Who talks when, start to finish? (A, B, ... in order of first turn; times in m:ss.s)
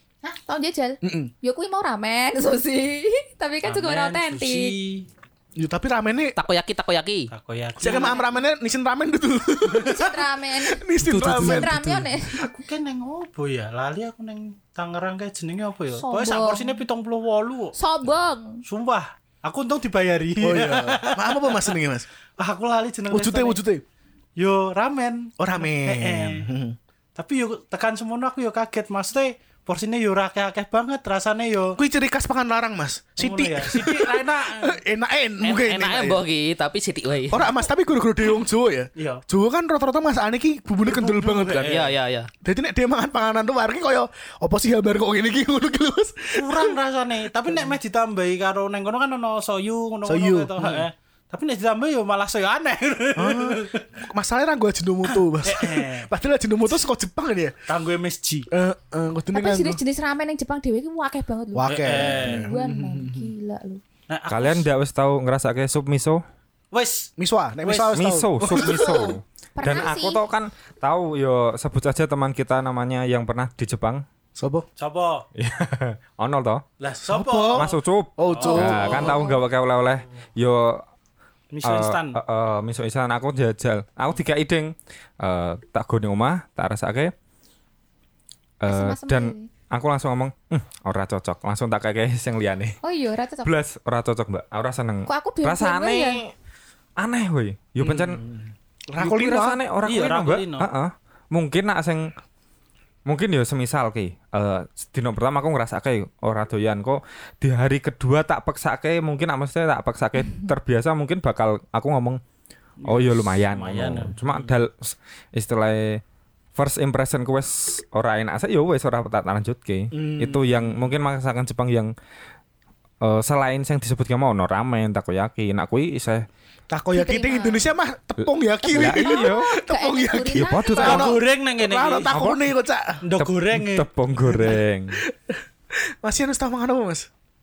0:00.2-0:04.8 A
0:01.0-0:01.3 B
0:03.6-0:05.1 C
0:05.6-0:06.3 B
0:06.4-0:07.3 D
0:07.3-0:08.2 C
0:07.8-0:11.8 B
0:07.8-0:08.3 A
0:09.9-0:12.5 A
0:11.0-0:12.1 D
0:12.3-0:17.8 C
0:16.0-0:16.6 A
0:17.8-0:18.6 A
0:18.6-0:21.8 C
0:20.4-0:22.1 B
0:22.4-0:23.6 C
0:23.1-0:23.8 B
0:24.4-0:26.4 C
0:25.4-0:26.8 B
0:27.2-0:31.8 C
0:31.8-0:36.2 B
0:33.2-0:34.8 C
0:35.4-0:37.5 D
0:37.3-0:41.7 B
0:39.0-0:39.2 C
0:40.8-0:41.9 C
0:41.6-0:42.3 D
0:42.4-0:46.7 B
0:46.4-0:53.8 C
0:50.0-0:50.9 B
0:53.2-0:57.5 B
0:55.1-0:56.1 C
0:57.7-0:58.5 C
0:58.5-0:59.8 B
0:59.3-1:03.8 A
1:01.5-1:03.3 B
1:01.6-1:02.5 C
1:04.1-1:04.7 C
1:04.3-1:06.2 E
1:06.7-1:07.1 C
1:07.2-1:09.2 B
1:07.6-1:07.9 C
1:07.9-1:14.0 E
1:09.6-1:10.2 A
1:14.4-1:14.6 B
1:14.8-1:15.2 C
1:15.4-1:16.6 E
1:16.8-1:19.1 C
1:17.1-1:19.3 B
1:17.5-1:20.8 E
1:18.4-1:19.4 A
1:21.5-1:22.2 C
1:21.6-1:27.1 E
1:28.6-1:32.8 E
1:28.7-1:29.5 A
1:32.8-1:33.5 A
1:33.4-1:36.3 E
1:35.1-1:36.2 A
1:37.0-1:38.2 E
1:37.8-1:39.6 B
1:39.0-1:42.1 E
1:39.8-1:40.7 C
1:43.1-1:52.2 E
1:52.8-1:54.5 C
1:52.8-1:56.0 E
1:56.5-2:01.9 E
1:59.9-2:00.7 B
2:03.0-2:06.2 E
2:06.7-2:13.0 B
2:06.9-2:07.7 A
2:08.6-2:09.6 E
2:08.7-2:11.0 A
2:10.3-2:11.2 E
2:10.8-2:12.1 C
2:12.1-2:12.4 E
2:13.0-2:13.9 C
2:13.2-2:15.0 E
2:14.2-2:15.4 B
2:16.0-2:17.1 B